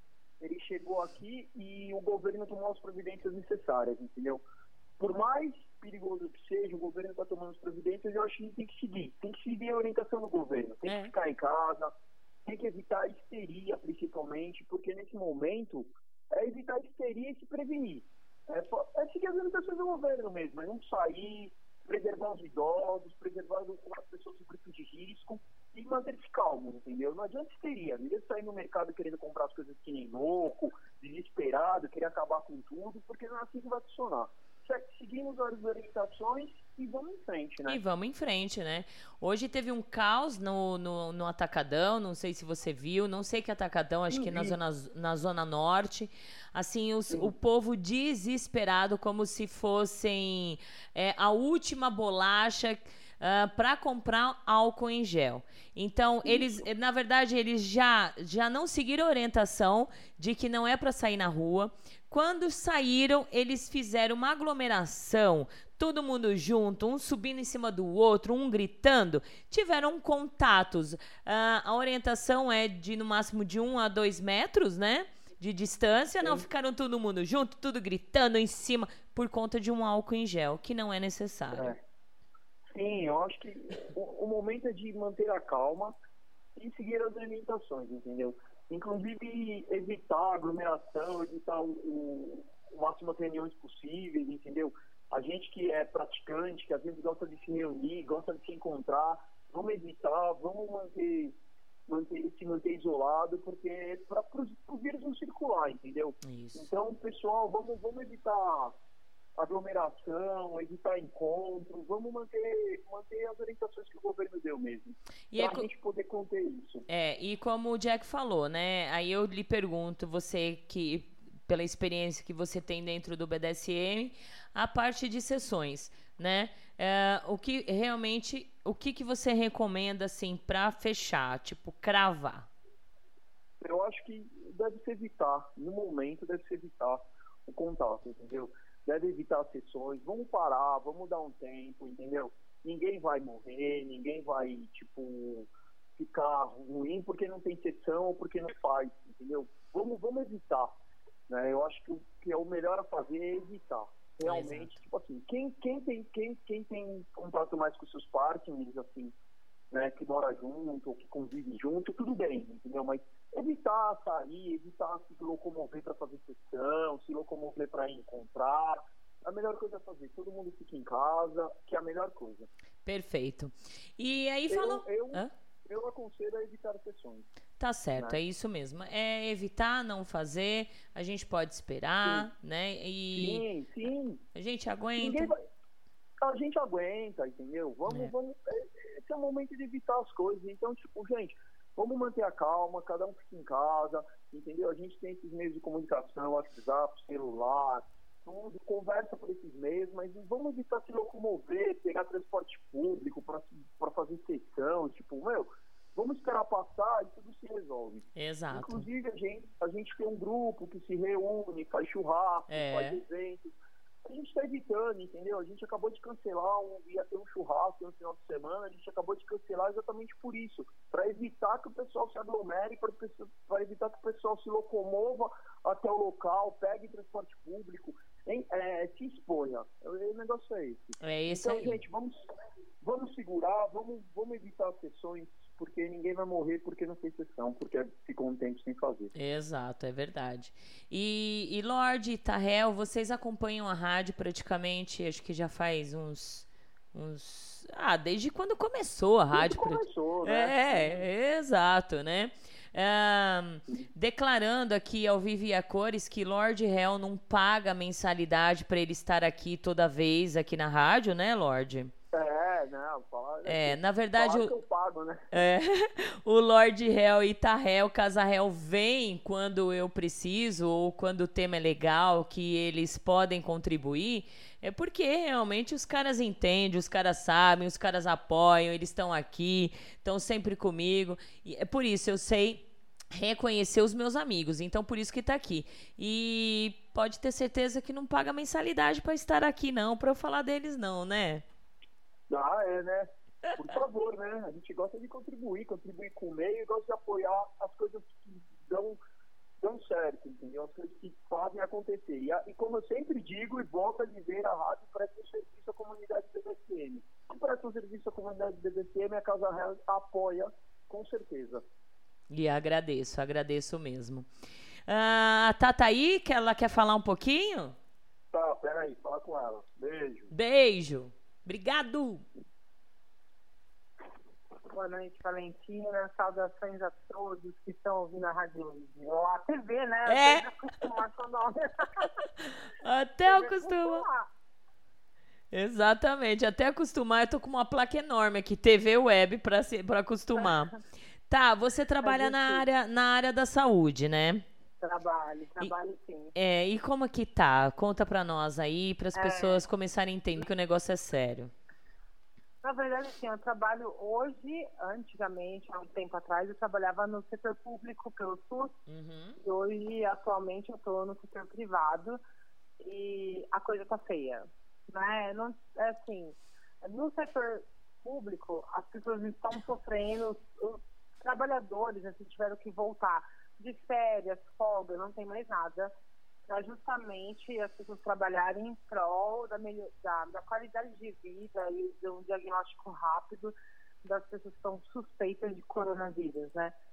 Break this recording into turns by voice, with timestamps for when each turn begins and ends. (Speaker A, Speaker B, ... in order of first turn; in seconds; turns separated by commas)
Speaker A: 0.4-4.4, Speaker A: 5.0-11.9, Speaker B: 10.8-11.1, Speaker A: 12.4-37.8, Speaker B: 37.6-81.7, Speaker A: 44.1-44.5, Speaker A: 56.2-56.6, Speaker A: 76.2-76.5, Speaker A: 82.7-85.9, Speaker A: 86.5-101.3, Speaker A: 101.9-108.7, Speaker B: 106.2-106.7, Speaker A: 109.4-116.8, Speaker B: 115.3-115.7, Speaker B: 116.9-132.5, Speaker A: 133.6-150.7, Speaker A: 151.3-159.1, Speaker B: 154.2-154.8, Speaker A: 159.7-172.5, Speaker B: 172.8-175.3, Speaker A: 174.5-177.2, Speaker B: 177.6-183.4, Speaker A: 183.1-184.2, Speaker B: 184.3-185.3, Speaker A: 185.0-185.4, Speaker A: 186.2-213.5, Speaker B: 187.9-188.1, Speaker B: 208.2-208.9, Speaker B: 212.5-213.0, Speaker A: 214.0-232.2, Speaker B: 231.0-231.8, Speaker A: 232.8-239.1, Speaker B: 239.1-261.9, Speaker A: 249.3-251.0, Speaker A: 262.1-265.4, Speaker B: 263.4-264.5, Speaker B: 265.3-291.4, Speaker A: 292.3-299.0, Speaker A: 299.6-311.6, Speaker B: 312.3-314.3, Speaker B: 314.9-317.8, Speaker A: 318.3-320.3, Speaker B: 320.3-322.2, Speaker C: 324.7-332.1, Speaker B: 330.1-330.5, Speaker B: 332.8-334.0, Speaker C: 333.2-334.3, Speaker B: 335.5-340.7, Speaker B: 341.3-344.4, Speaker C: 342.0-342.6, Speaker C: 344.8-346.3, Speaker B: 346.3-351.5, Speaker C: 349.1-349.6, Speaker C: 352.6-358.7, Speaker B: 358.9-359.4, Speaker C: 359.4-362.2, Speaker C: 362.8-375.9, Speaker C: 376.5-386.7